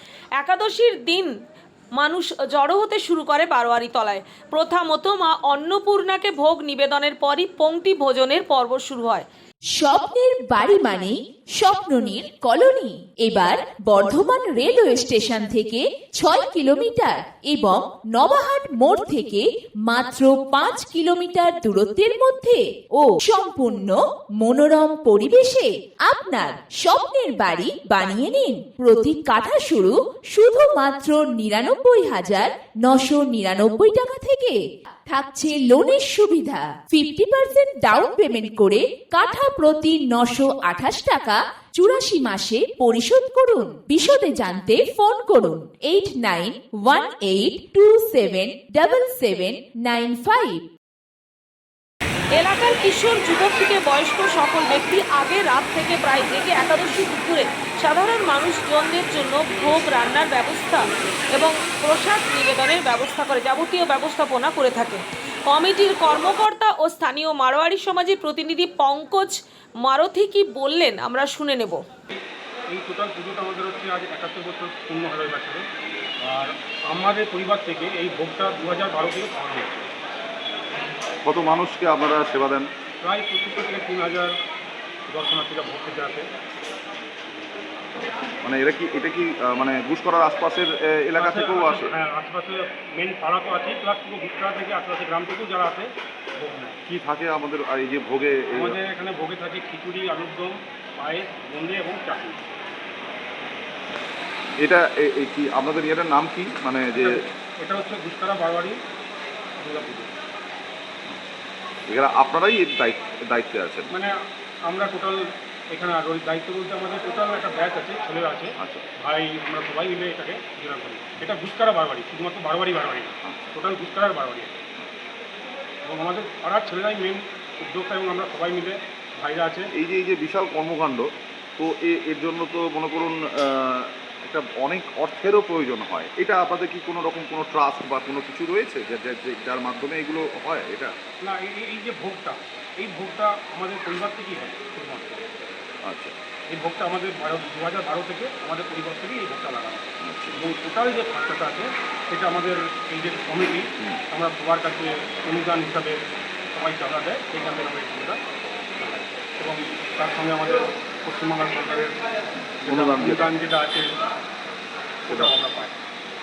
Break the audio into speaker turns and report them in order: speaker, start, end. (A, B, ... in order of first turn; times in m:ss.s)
0:00.4-0:01.3 A
0:02.0-0:09.3 A
0:09.8-0:50.6 B
0:52.4-1:11.8 A
1:12.7-1:15.7 C
1:16.2-1:19.9 C
1:21.2-1:22.7 D
1:23.0-1:24.3 C
1:25.1-1:26.3 C
1:28.4-1:31.9 D
1:31.2-1:36.8 C
1:36.9-1:38.8 D
1:38.5-1:42.4 C
1:44.6-1:47.1 D
1:47.0-1:48.8 C
1:49.6-1:50.1 C
1:51.9-1:53.9 D
1:54.7-1:55.2 C
1:55.7-2:04.6 C
2:05.9-2:09.7 C
2:09.7-2:20.9 D
2:21.2-2:25.2 C
2:25.8-2:26.1 D
2:26.5-2:36.0 C
2:30.0-2:30.4 D
2:36.5-2:38.2 C
2:38.8-2:42.0 C
2:42.6-2:43.9 C
2:42.7-2:43.3 D
2:45.1-2:45.7 C